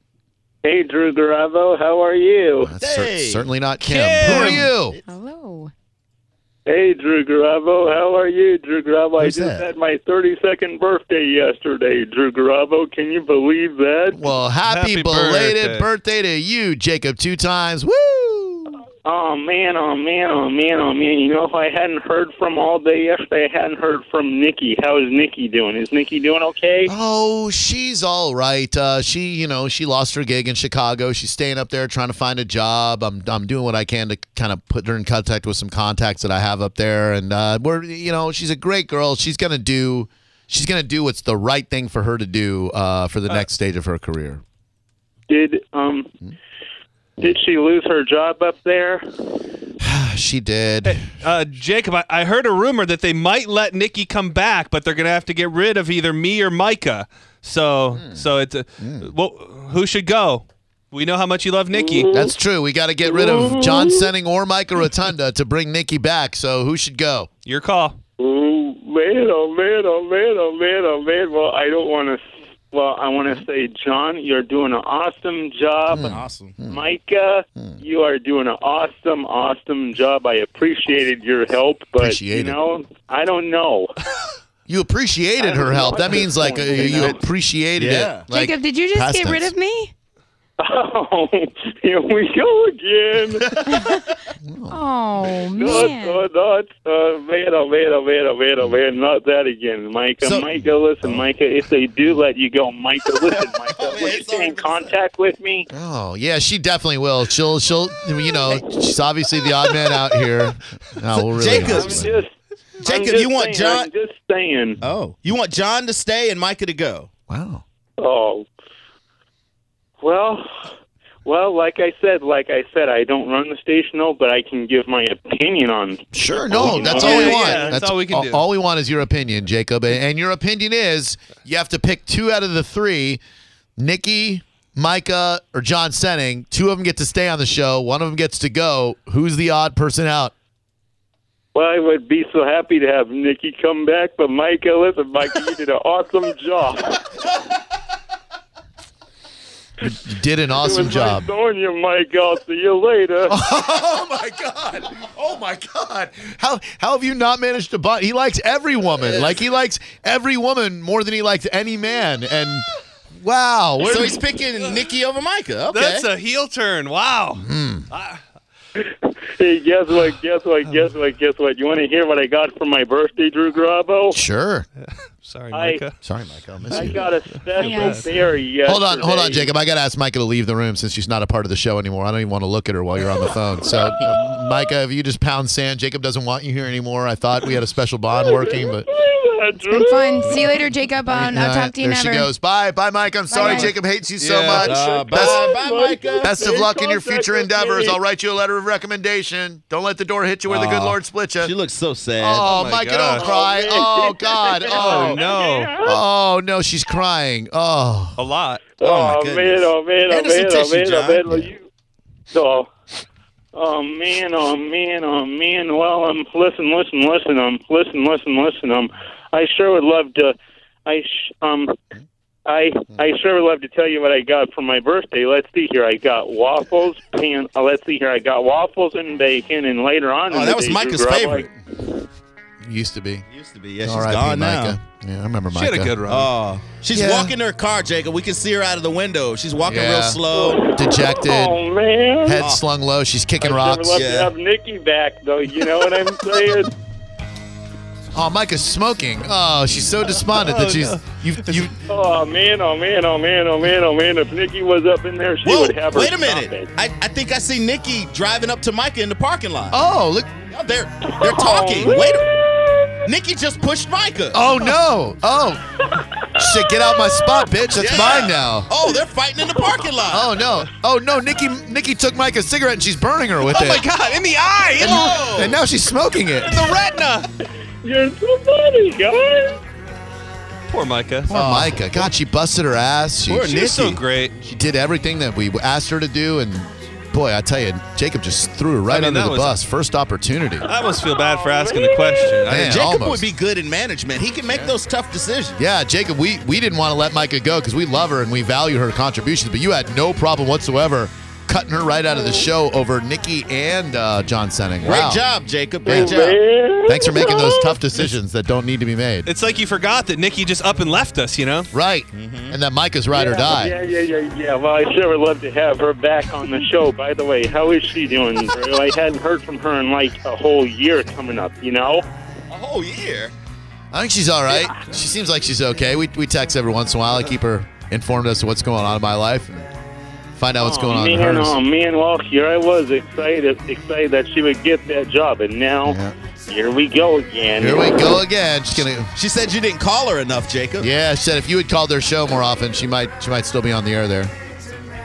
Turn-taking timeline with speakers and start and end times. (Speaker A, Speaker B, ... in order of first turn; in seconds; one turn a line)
Speaker A: 0.6-2.7
Speaker B: 2.6-5.0
Speaker C: 2.8-3.5
Speaker D: 3.9-4.7
Speaker E: 5.1-5.7
Speaker A: 6.7-14.3
Speaker B: 9.2-9.6
Speaker B: 14.1-18.8
Speaker D: 14.7-15.9
Speaker A: 19.0-26.9
Speaker B: 26.9-44.4
Speaker A: 45.3-46.1
Speaker A: 47.2-49.0
Speaker B: 49.8-51.0
Speaker D: 50.8-62.1
Speaker B: 57.9-58.2
Speaker B: 58.8-59.1
Speaker A: 61.7-62.3
Speaker B: 62.1-67.3
Speaker A: 63.0-64.1
Speaker D: 67.5-68.0
Speaker A: 68.2-76.1
Speaker B: 75.9-76.8
Speaker C: 76.1-76.6
Speaker A: 76.7-84.0
Speaker B: 82.0-82.6
Speaker B: 84.7-89.5
Speaker A: 85.4-87.2
Speaker C: 86.8-87.1
Speaker C: 87.8-88.2
Speaker E: 88.3-89.9
Speaker A: 90.6-93.6
Speaker B: 93.5-95.9
Speaker E: 93.7-94.0
Speaker E: 94.7-96.2
Speaker A: 95.5-105.7
Speaker C: 100.2-100.5
Speaker C: 103.7-104.9
Speaker B: 105.7-112.2
Speaker C: 111.3-112.1
Speaker A: 111.6-114.8
Speaker C: 112.8-113.9
Speaker C: 114.8-117.1
Speaker B: 117.3-117.6
Speaker A: 118.0-118.5
Speaker A: 120.0-120.4
Speaker A: 121.2-127.8
Speaker B: 126.1-133.2
Speaker D: 126.6-128.4
Speaker B: 133.8-140.3
Speaker A: 141.5-147.2
Speaker B: 149.8-151.3
Speaker A: 150.5-153.3
Speaker B: 153.3-164.2
Speaker C: 159.0-159.3
Speaker C: 163.8-166.1
Speaker D: 165.7-168.2
Speaker B: 167.4-167.9
Speaker A: 168.8-174.2
Speaker B: 174.1-174.7
Speaker D: 174.8-175.9
Speaker A: 175.5-175.8
Speaker B: 176.0-177.0
Speaker A: 176.7-179.5
Speaker D: 177.6-178.1
Speaker E: 177.6-178.0
Speaker B: 178.6-188.8
Speaker A: 188.1-190.4
Speaker E: 189.6-192.3
Speaker B: 191.1-195.5
Speaker E: 193.3-193.7
Speaker D: 194.2-194.7
Speaker C: 194.6-196.3
Speaker A: 194.6-198.0
Speaker B: 196.2-201.5
Speaker C: 200.5-202.5
Speaker B: 202.2-205.3
Speaker D: 202.4-203.3
Speaker A: 203.1-206.0
Speaker D: 204.7-205.7
Speaker B: 205.8-208.2
Speaker D: 208.2-208.7
Speaker A: 208.8-211.7
Speaker C: 208.8-211.2
Speaker A: 212.3-212.7
Speaker A: 213.5-220.3
Speaker A: 220.8-221.8
Speaker A: 222.4-231.5
Speaker C: 230.3-231.5
Speaker B: 232.6-233.2
Speaker C: 233.3-234.8
Speaker B: 233.8-236.3
Speaker D: 235.5-236.2
Speaker C: 236.1-240.7
Speaker B: 236.9-237.3
Speaker B: 239.6-241.6
Speaker A: 240.3-242.4
Speaker B: 242.2-243.9
Speaker A: 243.4-246.7
Speaker C: 243.9-244.3
Speaker B: 248.1-251.8
Speaker D: 250.4-251.0
Speaker A: 251.9-256.7
Speaker C: 255.4-259.8
Speaker B: 259.7-260.3
Speaker C: 260.5-262.3
Speaker A: 261.1-263.1
Speaker C: 263.1-264.4
Speaker B: 264.3-265.6
Speaker A: 265.9-268.1
Speaker B: 266.3-268.7
Speaker C: 267.8-270.4
Speaker A: 269.5-269.8
Speaker B: 270.1-273.8
Speaker D: 273.4-275.0
Speaker C: 274.8-275.6
Speaker B: 274.8-276.7
Speaker D: 276.4-277.3
Speaker A: 277.8-279.6
Speaker D: 280.7-281.3
Speaker B: 281.3-283.6
Speaker C: 281.3-282.1
Speaker C: 283.3-284.0
Speaker D: 283.4-284.4
Speaker B: 284.4-290.7
Speaker D: 288.9-289.6
Speaker D: 290.6-292.9
Speaker A: 290.7-292.4
Speaker B: 292.4-293.2
Speaker C: 292.5-295.6
Speaker B: 295.6-305.2
Speaker C: 304.8-306.4
Speaker A: 305.8-307.8
Speaker B: 305.9-306.2
Speaker B: 306.9-309.3
Speaker D: 309.2-311.7
Speaker B: 311.7-313.7
Speaker C: 312.1-312.6
Speaker A: 313.1-322.1
Speaker C: 322.5-323.3
Speaker B: 323.9-329.6
Speaker B: 330.4-331.6
Speaker A: 330.6-338.0
Speaker B: 335.8-336.1
Speaker B: 337.6-339.1
Speaker C: 339.1-340.9
Speaker B: 340.8-344.3